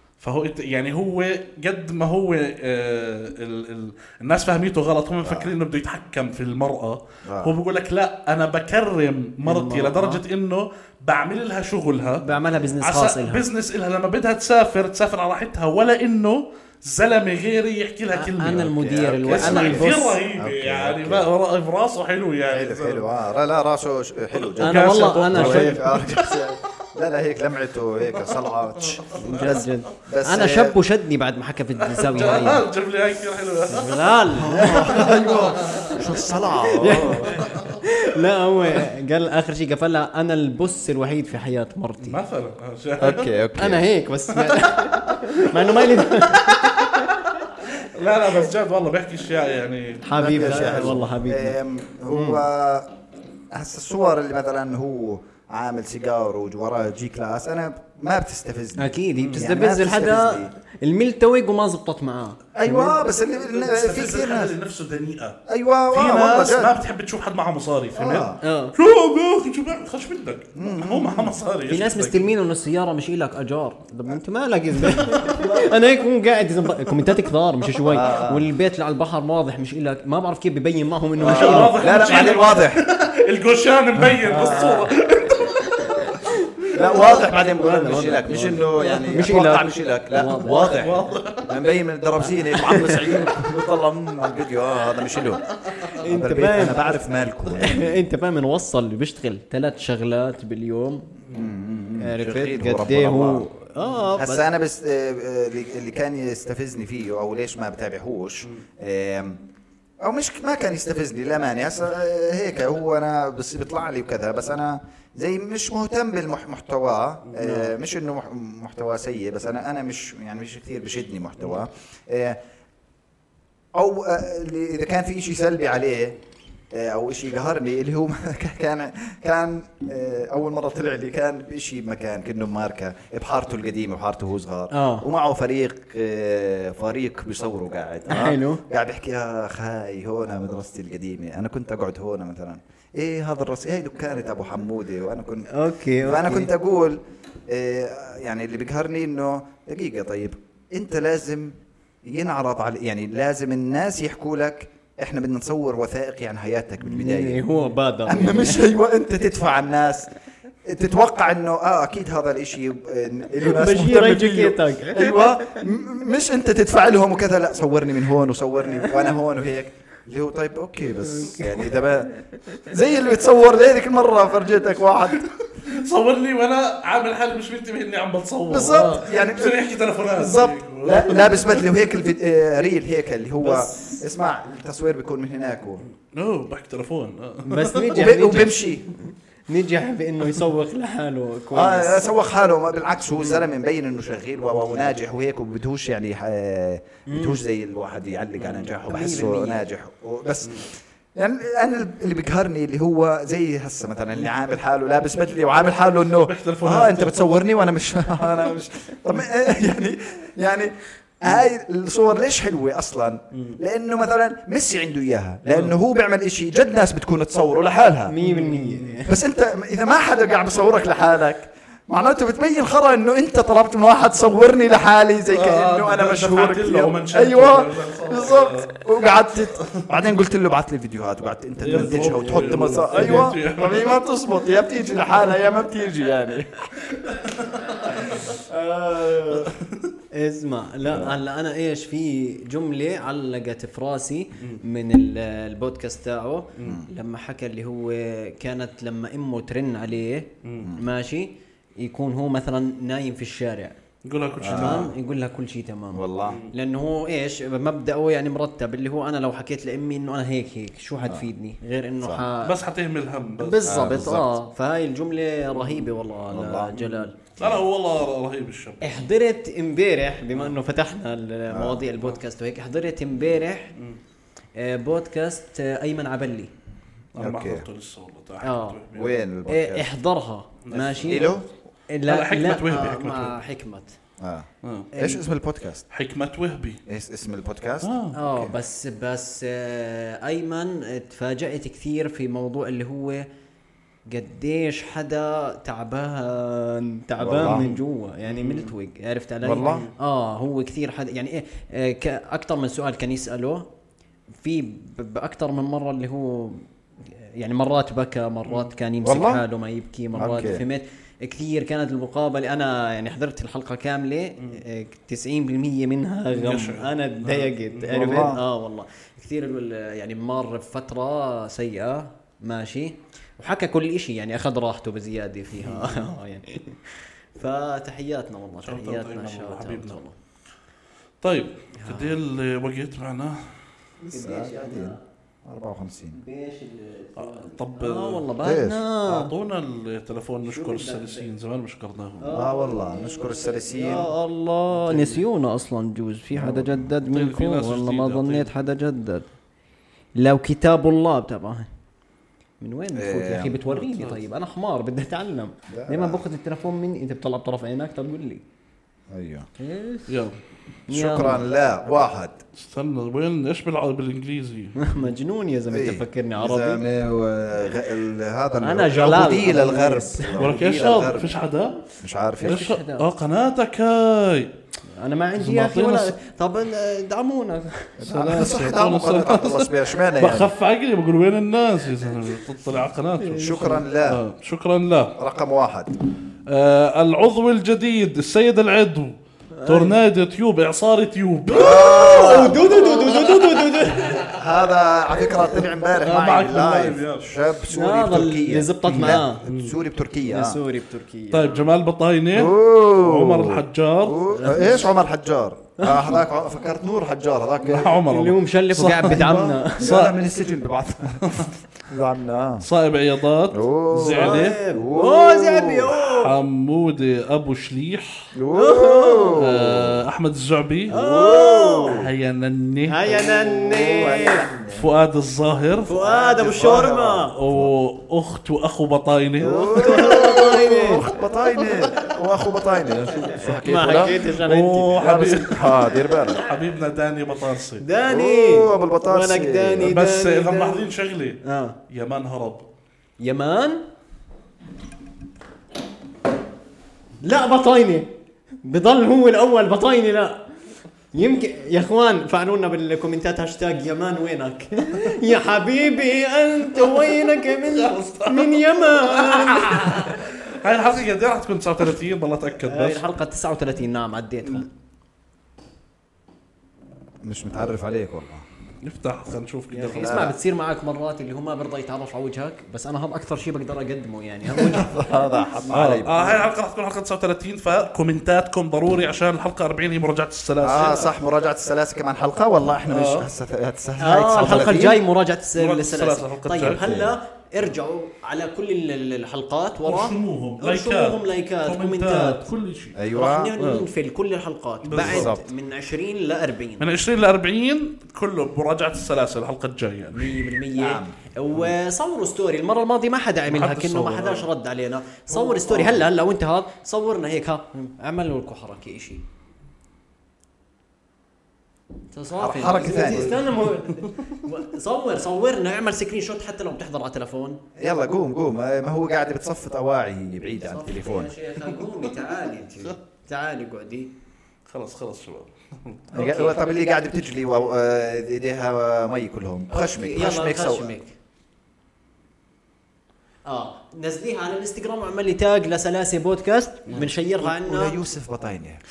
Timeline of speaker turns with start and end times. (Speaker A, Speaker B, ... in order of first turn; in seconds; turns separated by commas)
Speaker A: 0.2-12.2, Speaker B: 5.2-5.5, Speaker B: 7.2-7.5, Speaker C: 9.4-10.2, Speaker C: 12.2-13.4, Speaker A: 12.8-18.7, Speaker C: 18.1-20.2, Speaker B: 18.5-21.3, Speaker A: 19.3-23.1, Speaker B: 22.5-30.8, Speaker A: 24.5-26.4, Speaker C: 24.6-25.8, Speaker A: 28.1-29.7, Speaker C: 29.2-32.6, Speaker A: 31.8-36.0, Speaker C: 33.7-36.0, Speaker B: 34.5-37.4, Speaker A: 36.7-37.8, Speaker C: 36.8-42.2, Speaker A: 42.0-43.4, Speaker B: 43.0-43.9, Speaker C: 43.6-47.4, Speaker A: 44.3-50.9, Speaker C: 50.0-52.4, Speaker B: 50.1-52.9, Speaker B: 53.5-60.5, Speaker C: 58.8-62.9, Speaker A: 59.2-59.4, Speaker B: 62.5-64.6, Speaker A: 63.4-65.4, Speaker B: 65.5-66.7, Speaker A: 65.9-72.3, Speaker B: 67.9-68.4, Speaker C: 68.4-68.7, Speaker B: 70.5-71.4, Speaker C: 71.7-81.8, Speaker B: 77.9-78.5, Speaker B: 81.2-82.8, Speaker A: 81.2-86.1, Speaker B: 84.1-84.9, Speaker C: 85.8-90.8, Speaker B: 86.7-95.5, Speaker A: 87.8-88.2, Speaker A: 90.4-91.6, Speaker C: 92.4-93.2, Speaker A: 92.9-93.2, Speaker A: 95.7-95.9, Speaker C: 96.0-96.9, Speaker B: 96.0-98.0, Speaker C: 97.6-101.1, Speaker B: 101.3-103.5, Speaker C: 102.0-104.4, Speaker B: 104.2-109.4, Speaker B: 110.0-122.4, Speaker A: 117.3-117.6, Speaker B: 123.7-126.2, Speaker B: 126.7-145.5, Speaker C: 134.7-135.1, Speaker C: 138.1-138.6, Speaker C: 145.5-146.5, Speaker B: 146.0-157.4, Speaker C: 156.8-158.7, Speaker B: 158.1-160.1, Speaker B: 160.6-175.3, Speaker C: 163.4-165.1, Speaker A: 175.1-181.6, Speaker B: 178.5-179.6, Speaker B: 180.1-185.8, Speaker C: 183.4-184.0, Speaker A: 186.1-188.0, Speaker C: 187.4-188.7, Speaker B: 187.9-188.9, Speaker C: 189.5-192.1, Speaker B: 191.5-218.2, Speaker C: 197.1-197.4, Speaker A: 198.4-198.8, Speaker C: 198.9-199.6, Speaker A: 206.2-207.2, Speaker A: 215.5-215.7, Speaker C: 218.1-219.1, Speaker A: 218.2-219.0, Speaker B: 219.1-236.8, Speaker A: 225.3-229.8, Speaker A: 231.6-234.0, Speaker C: 231.7-233.3, Speaker A: 236.9-238.4, Speaker B: 238.1-239.5, Speaker A: 239.3-239.9, Speaker C: 240.1-253.8, Speaker B: 240.8-241.1, Speaker A: 246.6-246.8, Speaker A: 250.4-250.7, Speaker A: 254.0-254.9, Speaker B: 254.4-254.9, Speaker C: 254.5-262.5, Speaker B: 255.9-256.4, Speaker A: 256.2-256.5, Speaker B: 261.0-261.3, Speaker A: 262.4-264.0, Speaker C: 263.4-267.2, Speaker B: 263.6-264.3, Speaker B: 266.3-266.9, Speaker A: 267.3-269.0, Speaker C: 268.8-273.7, Speaker B: 271.5-271.8, Speaker C: 274.6-276.5, Speaker A: 277.1-279.1, Speaker B: 277.2-277.7, Speaker C: 278.4-278.8, Speaker B: 278.9-279.9, Speaker C: 279.5-281.3, Speaker A: 280.6-281.3, Speaker B: 281.0-281.5, Speaker C: 281.9-283.9, Speaker A: 282.1-283.4, Speaker B: 284.2-285.8, Speaker A: 284.6-284.9, Speaker C: 284.9-285.2, Speaker A: 285.9-286.8, Speaker B: 286.9-288.5, Speaker A: 287.8-288.2, Speaker C: 288.1-293.2, Speaker C: 294.1-303.6, Speaker B: 297.2-297.7, Speaker A: 297.5-298.7, Speaker B: 299.4-299.8, Speaker A: 299.6-299.9, Speaker C: 304.4-330.1, Speaker B: 309.0-309.4, Speaker B: 310.1-310.6, Speaker A: 316.3-318.2, Speaker B: 317.9-318.4, Speaker A: 325.6-325.9, Speaker A: 328.6-330.0, Speaker A: 331.2-333.4, Speaker C: 331.8-332.1, Speaker C: 334.0-335.0, Speaker B: 334.2-336.1, Speaker C: 336.1-339.3, Speaker A: 337.2-338.3, Speaker B: 338.4-338.8, Speaker A: 339.0-342.4, Speaker C: 340.5-341.3, Speaker C: 342.2-349.3, Speaker B: 342.3-344.1, Speaker A: 344.8-345.2, Speaker B: 346.3-346.9, Speaker A: 347.1-348.5, Speaker C: 350.2-351.7, Speaker C: 352.6-358.4, Speaker B: 352.9-353.5, Speaker A: 353.7-354.2, Speaker B: 355.7-356.2, Speaker B: 359.1-359.5, Speaker C: 359.6-360.1, Speaker A: 360.1-360.4, Speaker C: 360.9-361.4, Speaker B: 360.9-362.4, Speaker A: 362.5-364.8, Speaker C: 364.8-366.8, Speaker B: 365.7-371.3, Speaker C: 368.6-370.9, Speaker A: 370.4-371.8, Speaker B: 372.0-372.6, Speaker C: 372.4-373.1, Speaker A: 372.4-374.5, Speaker C: 375.0-378.0, Speaker A: 375.4-376.1, Speaker B: 378.0-380.5, Speaker A: 378.0-385.1, Speaker C: 383.2-383.8, Speaker B: 383.3-384.2, Speaker B: 385.2-385.9, Speaker A: 386.5-392.4, Speaker C: 389.5-389.9, Speaker B: 391.5-393.4, Speaker C: 391.5-394.3, Speaker B: 394.2-400.6, Speaker A: 395.9-397.3, Speaker C: 397.7-399.4, Speaker A: 398.9-399.8, Speaker C: 400.2-401.6, Speaker A: 401.3-404.2, Speaker B: 402.3-407.9, Speaker C: 404.3-404.9, Speaker C: 405.8-406.1, Speaker A: 407.7-410.1, Speaker C: 408.1-409.9, Speaker B: 409.1-412.6, Speaker A: 411.2-411.5, Speaker A: 412.6-414.6, Speaker B: 413.5-415.9, Speaker C: 414.1-416.3, Speaker A: 415.9-418.3, Speaker B: 418.3-420.1, Speaker C: 418.5-419.4, Speaker A: 419.4-420.9, Speaker C: 420.9-422.0, Speaker B: 420.9-422.1, Speaker A: 421.9-423.1, Speaker C: 422.9-424.5, Speaker B: 423.1-424.9, Speaker A: 424.7-426.0, Speaker C: 425.9-427.4, Speaker B: 426.0-427.7, Speaker A: 427.3-430.1, Speaker B: 429.4-434.2, Speaker C: 429.4-431.1, Speaker C: 433.2-435.1, Speaker A: 434.1-437.8, Speaker B: 435.0-436.4, Speaker C: 437.8-440.9, Speaker B: 438.1-439.9, Speaker A: 439.8-442.6, Speaker C: 441.4-441.8, Speaker C: 443.2-443.8, Speaker C: 447.2-448.1, Speaker C: 448.6-450.4, Speaker C: 451.1-460.3, Speaker A: 456.7-463.0, Speaker C: 462.6-464.7, Speaker B: 467.2-468.4, Speaker A: 468.8-470.3, Speaker C: 469.7-476.4, Speaker B: 469.9-470.3, Speaker B: 474.5-476.3, Speaker A: 475.7-481.1, Speaker B: 480.6-485.0, Speaker A: 482.9-483.3, Speaker C: 484.0-492.5, Speaker A: 485.6-486.8, Speaker B: 486.6-487.1, Speaker A: 489.9-493.0, Speaker B: 492.9-493.5, Speaker C: 493.1-496.9, Speaker A: 493.6-493.9, Speaker A: 494.8-495.3, Speaker B: 495.0-495.4, Speaker A: 496.8-500.5, Speaker C: 500.1-509.2, Speaker B: 500.8-501.1, Speaker A: 503.5-504.5, Speaker B: 505.5-506.0, Speaker C: 512.1-517.6, Speaker B: 512.4-513.4, Speaker A: 513.7-514.1, Speaker B: 517.8-521.3, Speaker C: 520.6-524.1, Speaker A: 521.7-522.2, Speaker A: 524.7-526.0, Speaker B: 526.1-530.9, Speaker C: 526.1-526.6, Speaker C: 529.7-531.1, Speaker C: 533.5-538.0, Speaker B: 537.4-538.8